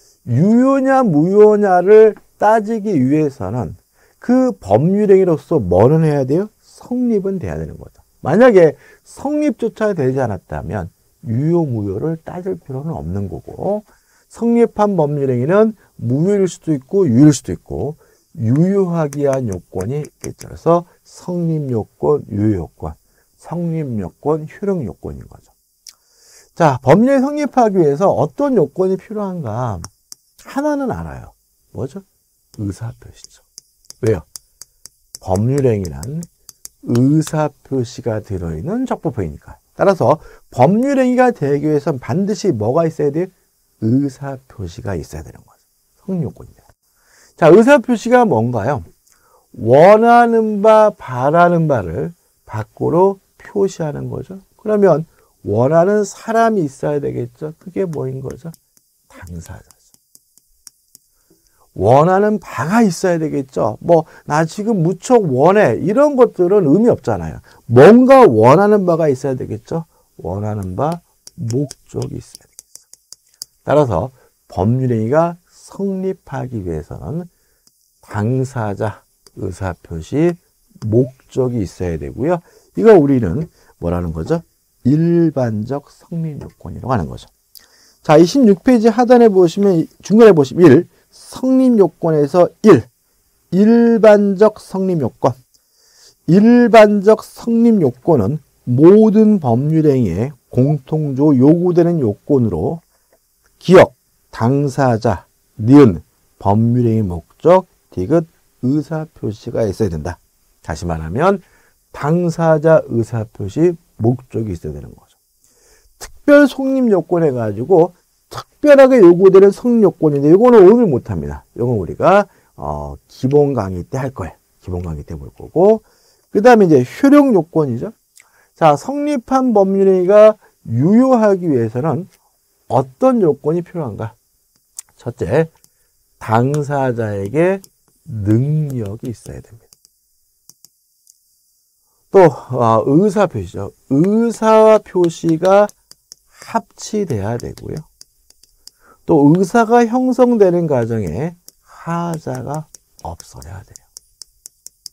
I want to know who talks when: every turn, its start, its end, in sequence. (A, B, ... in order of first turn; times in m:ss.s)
0:00.3-0:25.5 A
0:26.6-0:29.9 A
0:30.4-0:32.0 A
0:32.6-0:33.4 A
0:35.2-0:36.3 A
0:36.8-0:45.5 A
0:46.0-0:46.6 A
0:47.4-0:48.9 A
0:49.5-0:58.5 A
0:59.1-0:59.7 A
1:01.8-1:12.5 A
1:13.6-1:17.3 A
1:18.0-1:27.3 A
1:28.0-1:32.9 A
1:33.5-1:35.4 A
1:36.3-1:42.8 A
1:43.6-1:55.1 A
1:56.0-2:07.9 A
2:08.6-2:12.1 A
2:12.7-2:14.2 A
2:15.0-2:15.5 A
2:16.2-2:19.7 A
2:22.1-2:25.7 A
2:26.3-2:27.9 A
2:29.1-2:33.8 A